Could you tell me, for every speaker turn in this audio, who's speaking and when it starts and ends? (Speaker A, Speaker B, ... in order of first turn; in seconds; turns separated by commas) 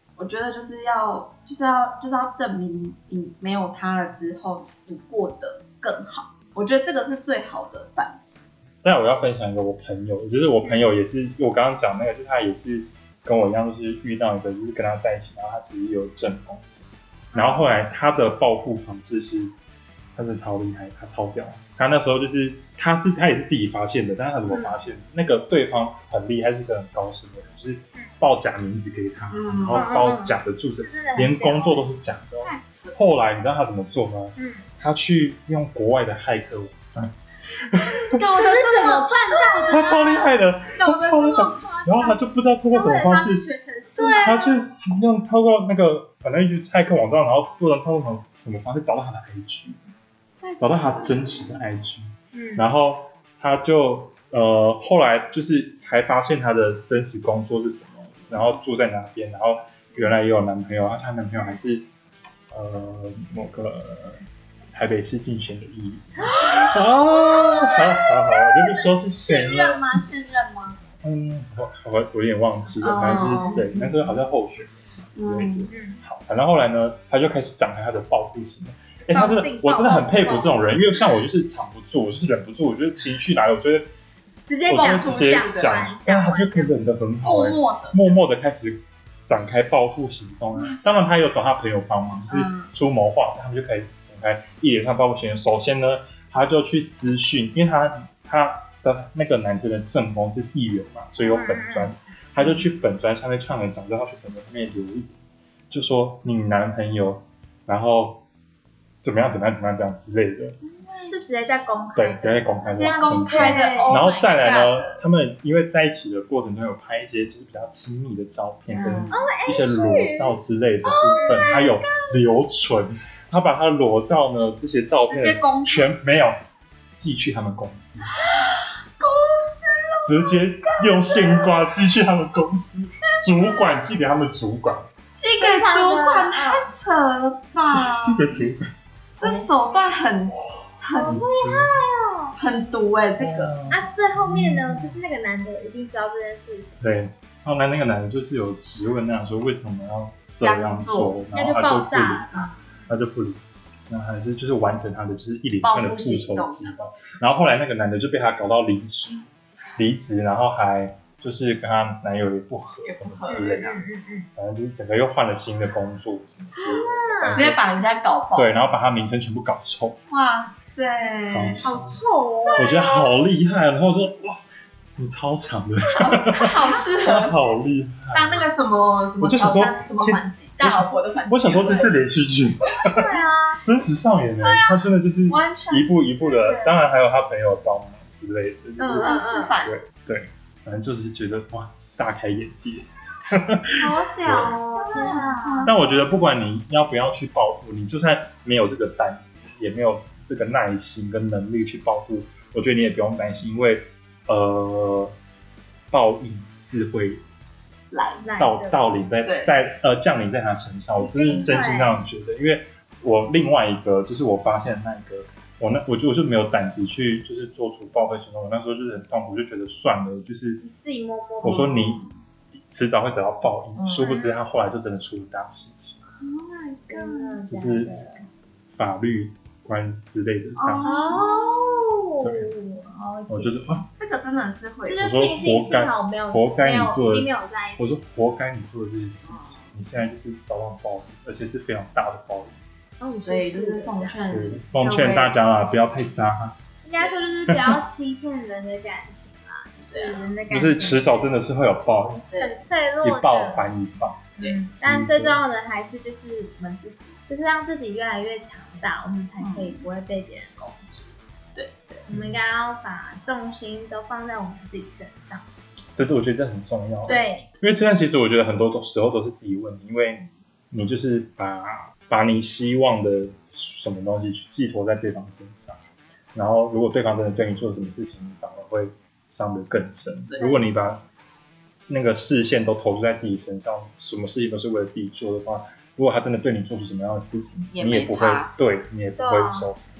Speaker A: 0.2-8.4, Speaker B: 8.8-16.8, Speaker C: 17.3-17.7, Speaker B: 17.3-19.5, Speaker B: 20.1-38.2, Speaker C: 24.5-24.7, Speaker A: 29.3-29.9, Speaker C: 29.7-31.9, Speaker A: 32.4-33.0, Speaker C: 34.4-34.6, Speaker A: 38.1-41.8, Speaker C: 38.2-40.1, Speaker B: 39.6-43.4, Speaker C: 41.6-42.2, Speaker C: 42.7-44.5, Speaker A: 44.0-44.4, Speaker B: 44.2-49.8, Speaker A: 50.4-51.4, Speaker B: 50.6-61.9, Speaker C: 52.3-52.6, Speaker A: 58.2-58.5, Speaker A: 59.9-60.2, Speaker B: 62.5-70.0, Speaker A: 66.3-70.8, Speaker B: 71.0-83.9, Speaker A: 72.8-74.2, Speaker A: 75.2-75.7, Speaker C: 75.7-76.0, Speaker C: 79.1-80.6, Speaker C: 84.5-86.7, Speaker B: 84.7-105.1, Speaker A: 84.7-85.9, Speaker A: 87.2-88.2, Speaker A: 90.5-90.9, Speaker A: 92.3-92.7, Speaker C: 101.2-101.9, Speaker A: 102.4-102.6, Speaker B: 105.7-108.2, Speaker B: 109.0-110.6, Speaker A: 110.6-111.2, Speaker C: 111.1-114.0, Speaker B: 112.0-126.4, Speaker A: 112.7-115.0, Speaker A: 118.7-119.2, Speaker C: 119.1-120.3, Speaker A: 120.8-122.1, Speaker C: 121.1-121.7, Speaker A: 125.0-125.9, Speaker B: 126.9-128.1, Speaker A: 128.1-131.7, Speaker B: 130.0-134.9, Speaker A: 135.1-138.4, Speaker C: 135.4-136.7, Speaker B: 137.7-139.6, Speaker A: 139.2-141.7, Speaker C: 140.9-142.3, Speaker B: 141.0-141.8, Speaker A: 142.3-143.5, Speaker B: 143.2-145.0, Speaker C: 143.7-146.8, Speaker B: 146.8-163.7, Speaker A: 150.4-151.2, Speaker C: 151.3-152.6, Speaker A: 155.6-156.7, Speaker A: 162.8-163.8, Speaker C: 163.2-164.3, Speaker B: 164.3-167.6, Speaker C: 166.6-167.5, Speaker A: 167.3-168.5, Speaker B: 168.3-170.0, Speaker A: 170.1-171.6, Speaker B: 171.2-172.0, Speaker C: 171.6-173.1, Speaker A: 172.4-172.9, Speaker B: 172.6-174.4, Speaker B: 174.9-178.5, Speaker A: 175.9-177.3, Speaker A: 178.1-182.0, Speaker B: 179.2-194.6, Speaker C: 182.8-183.6, Speaker A: 184.4-184.8, Speaker C: 185.3-186.8, Speaker A: 188.8-189.8, Speaker C: 189.0-189.5, Speaker C: 193.8-195.7, Speaker A: 194.7-195.8, Speaker B: 195.6-205.1, Speaker B: 205.9-207.2, Speaker A: 207.9-208.2, Speaker C: 208.2-208.8, Speaker B: 208.4-220.6, Speaker A: 209.2-209.5, Speaker C: 211.0-212.0, Speaker C: 220.6-222.0, Speaker B: 221.4-222.0, Speaker B: 222.5-226.0, Speaker A: 223.8-224.1, Speaker C: 224.0-224.4, Speaker A: 226.2-227.4, Speaker C: 226.9-228.2, Speaker B: 227.5-228.0, Speaker B: 228.7-231.2, Speaker A: 230.6-231.7, Speaker C: 230.8-233.8, Speaker B: 232.2-232.5, Speaker B: 233.3-233.8, Speaker A: 234.0-235.1, Speaker C: 234.8-238.0, Speaker B: 235.0-242.6, Speaker A: 239.2-239.8, Speaker C: 243.0-244.2, Speaker A: 243.0-245.3, Speaker B: 244.2-246.6, Speaker C: 246.8-251.1, Speaker B: 247.5-247.8, Speaker A: 249.8-250.3, Speaker B: 250.5-252.2, Speaker A: 252.3-252.5, Speaker C: 252.4-253.7, Speaker B: 253.0-254.3, Speaker C: 254.4-261.1, Speaker B: 254.8-255.4, Speaker A: 259.4-259.8, Speaker A: 261.5-261.9, Speaker C: 261.9-265.4, Speaker B: 262.1-262.4, Speaker B: 265.9-275.8, Speaker A: 267.1-267.4, Speaker C: 267.1-267.4, Speaker B: 276.3-289.9, Speaker A: 280.3-280.6, Speaker A: 287.7-288.5, Speaker C: 289.2-289.7